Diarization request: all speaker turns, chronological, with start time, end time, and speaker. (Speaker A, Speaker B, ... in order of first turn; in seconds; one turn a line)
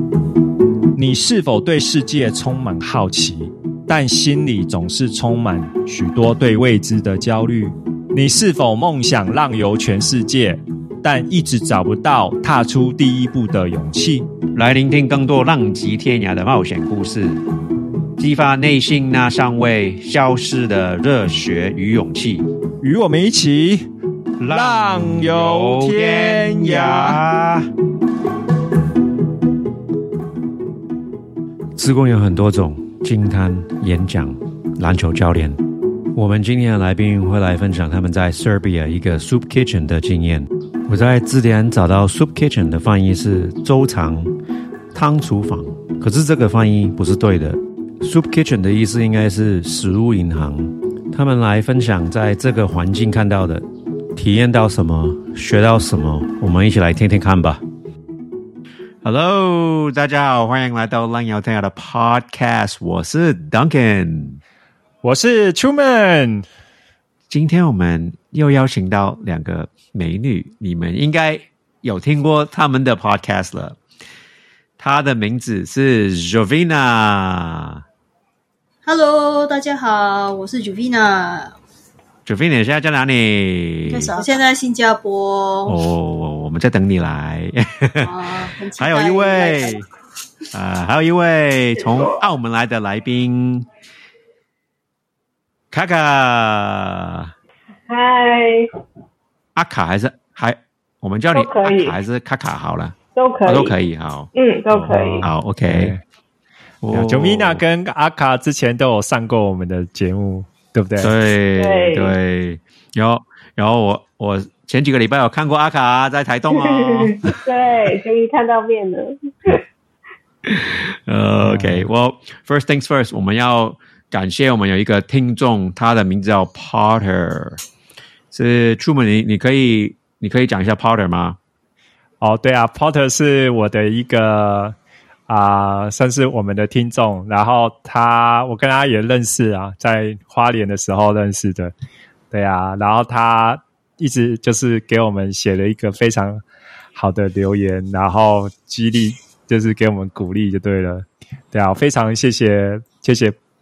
Speaker A: 0.9-14.3
Speaker B: 14.5-17.4
Speaker B: 18.2-22.4
Speaker A: 22.8-23.9
Speaker A: 24.4-27.2
Speaker B: 24.4-27.7
Speaker B: 31.8-35.6
Speaker B: 36.1-44.3
Speaker B: 44.9-57.6
Speaker B: 59.0-64.4
Speaker A: 65.0-66.5
Speaker B: 67.3-73.8
Speaker B: 74.8-77.8
Speaker C: 78.8-81.5
Speaker B: 82.2-84.1
Speaker C: 83.9-85.8
Speaker B: 85.7-88.1
Speaker C: 88.0-89.8
Speaker B: 88.8-89.8
Speaker B: 90.5-93.7
Speaker B: 95.7-97.3
Speaker D: 97.9-98.7
Speaker B: 99.5-104.3
Speaker D: 101.3-102.0
Speaker D: 103.1-103.7
Speaker D: 104.3-105.3
Speaker A: 104.7-106.0
Speaker B: 105.2-105.9
Speaker B: 106.8-107.6
Speaker A: 106.9-111.1
Speaker B: 111.0-117.3
Speaker D: 111.6-112.1
Speaker D: 116.5-119.6
Speaker B: 120.4-127.6
Speaker A: 121.4-121.8
Speaker B: 128.3-131.4
Speaker A: 132.2-134.7
Speaker A: 135.3-141.7
Speaker A: 142.3-146.4
Speaker A: 146.9-153.3